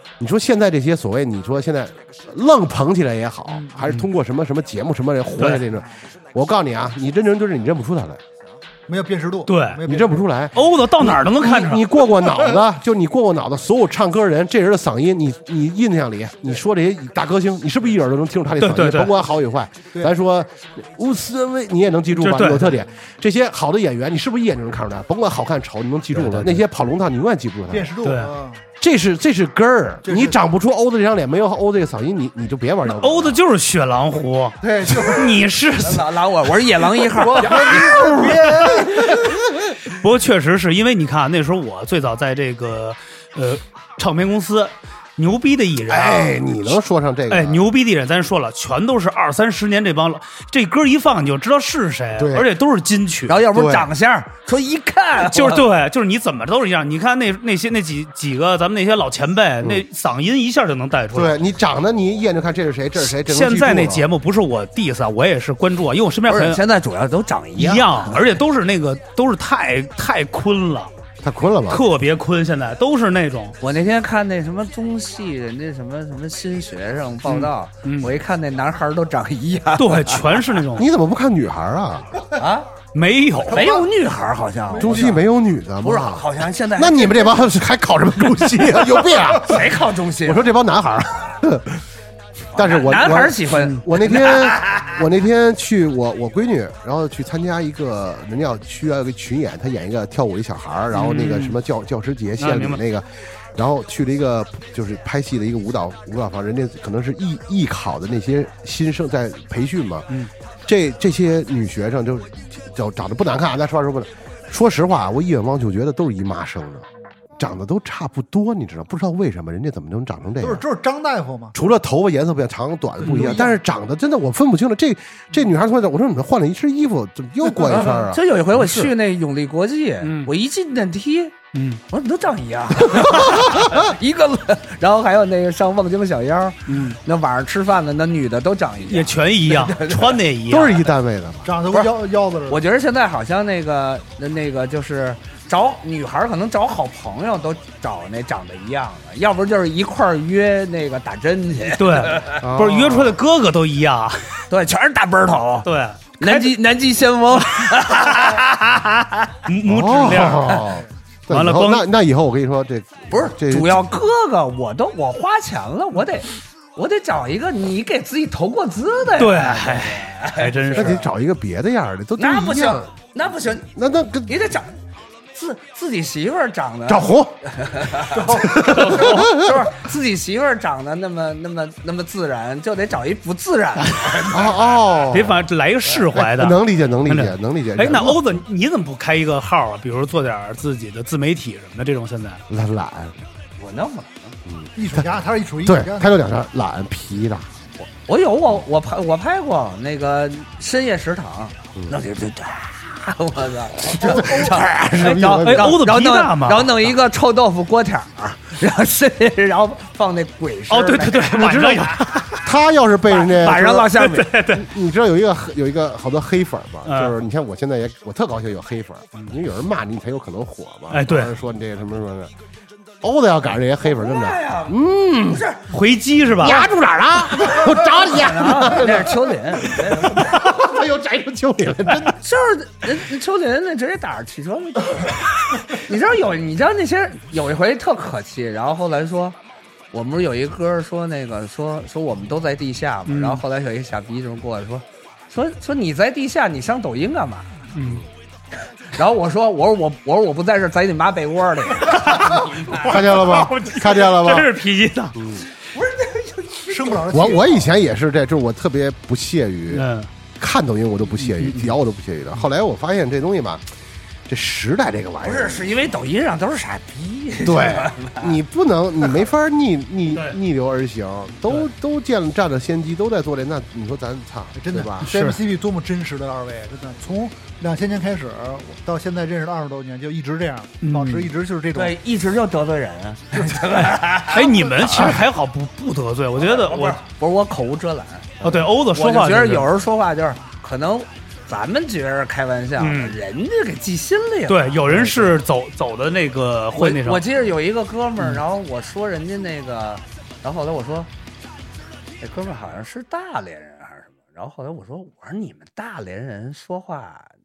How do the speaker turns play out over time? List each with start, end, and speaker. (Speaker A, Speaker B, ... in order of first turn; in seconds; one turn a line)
Speaker A: 0.2-8.2
Speaker B: 3.5-3.8
Speaker C: 5.4-5.7
Speaker B: 8.9-10.3
Speaker C: 9.5-9.8
Speaker A: 9.8-27.9
Speaker C: 10.6-11.9
Speaker C: 18.6-19.1
Speaker C: 22.2-22.8
Speaker C: 26.1-26.6
Speaker B: 27.7-28.6
Speaker C: 28.0-28.3
Speaker A: 28.8-33.4
Speaker B: 30.1-30.4
Speaker C: 32.9-36.1
Speaker B: 34.6-35.4
Speaker A: 34.8-35.2
Speaker D: 35.8-37.9
Speaker B: 37.1-39.3
Speaker A: 37.6-38.1
Speaker C: 37.8-39.1
Speaker A: 39.0-39.4
Speaker C: 39.9-46.4
Speaker A: 45.9-47.7
Speaker C: 47.3-53.4
Speaker A: 52.2-52.5
Speaker D: 53.3-55.7
Speaker A: 53.5-53.9
Speaker C: 55.2-61.4
Speaker A: 61.1-64.1
Speaker C: 63.0-66.6
Speaker D: 66.3-68.2
Speaker C: 67.6-70.9
Speaker A: 71.2-71.8
Speaker C: 71.7-73.6
Speaker D: 73.6-80.5
Speaker C: 77.3-78.1
Speaker C: 79.8-80.9
Speaker A: 80.7-82.2
Speaker D: 82.3-82.7
Speaker C: 82.9-83.7
Speaker D: 83.5-85.2
Speaker B: 83.5-83.9
Speaker B: 84.7-85.2
Speaker A: 84.8-91.8
Speaker D: 85.8-87.4
Speaker D: 89.4-90.5
Speaker A: 92.5-110.1
Speaker D: 92.5-95.0
Speaker C: 100.9-101.6
Speaker C: 102.4-102.8
Speaker A: 110.7-116.9
Speaker A: 117.4-120.6
Speaker B: 120.4-121.5
Speaker A: 121.5-128.9
Speaker C: 123.0-123.3
Speaker B: 123.0-123.6
Speaker D: 127.8-131.4
Speaker C: 130.0-130.3
Speaker C: 131.5-131.8
Speaker D: 131.9-140.2
Speaker A: 132.9-133.9
Speaker C: 136.7-137.0
Speaker C: 138.9-140.9
Speaker A: 140.5-141.5
Speaker B: 141.4-142.7
Speaker D: 142.5-152.4
Speaker C: 151.8-154.4
Speaker A: 152.4-153.2
Speaker D: 154.5-155.7
Speaker C: 155.7-156.5
Speaker D: 156.2-159.3
Speaker C: 159.5-160.7
Speaker A: 159.7-163.9
Speaker C: 161.3-161.9
Speaker D: 163.1-171.1
Speaker C: 169.2-171.0
Speaker A: 170.7-172.9
Speaker D: 172.2-173.7
Speaker A: 173.7-174.4
Speaker D: 174.3-174.7
Speaker D: 175.3-184.6
Speaker A: 176.9-177.4
Speaker B: 178.1-178.6
Speaker A: 178.3-179.7
Speaker C: 178.7-179.3
Speaker A: 184.3-185.5
Speaker C: 185.1-192.4
Speaker A: 186.1-188.4
Speaker A: 192.5-193.2
Speaker D: 193.6-194.3
Speaker A: 194.5-195.1
Speaker B: 194.8-196.2
Speaker A: 195.6-197.9
Speaker D: 198.1-212.2
Speaker A: 203.8-205.8
Speaker B: 204.0-204.5
Speaker C: 205.0-206.8
Speaker C: 210.7-212.3
Speaker A: 211.3-222.3
Speaker D: 213.1-214.3
Speaker C: 213.9-214.7
Speaker C: 216.9-217.2
Speaker C: 220.9-221.3
Speaker A: 223.0-225.5
Speaker D: 223.8-225.7
Speaker C: 225.7-226.7
Speaker A: 226.4-232.2
Speaker D: 227.3-230.6
Speaker D: 232.2-239.4
Speaker D: 239.9-247.5
Speaker C: 243.1-243.4
Speaker C: 247.7-248.0
Speaker D: 248.9-252.9
Speaker A: 252.7-254.5
Speaker C: 252.8-255.2
Speaker A: 255.2-255.5
Speaker D: 255.7-257.1
Speaker B: 256.7-257.7
Speaker A: 257.1-259.9
Speaker C: 259.7-260.1
Speaker A: 260.4-263.7
Speaker C: 261.3-261.7
Speaker A: 264.3-265.9
Speaker D: 265.2-268.3
Speaker A: 267.4-275.1
Speaker B: 274.6-282.0
Speaker C: 275.1-275.4
Speaker C: 280.8-281.3
Speaker D: 281.7-285.2
Speaker B: 283.4-283.6
Speaker C: 284.3-287.0
Speaker D: 286.4-295.4
Speaker C: 288.4-289.7
Speaker C: 292.8-293.2
Speaker C: 294.5-297.3
Speaker D: 296.8-301.1
Speaker D: 302.2-307.3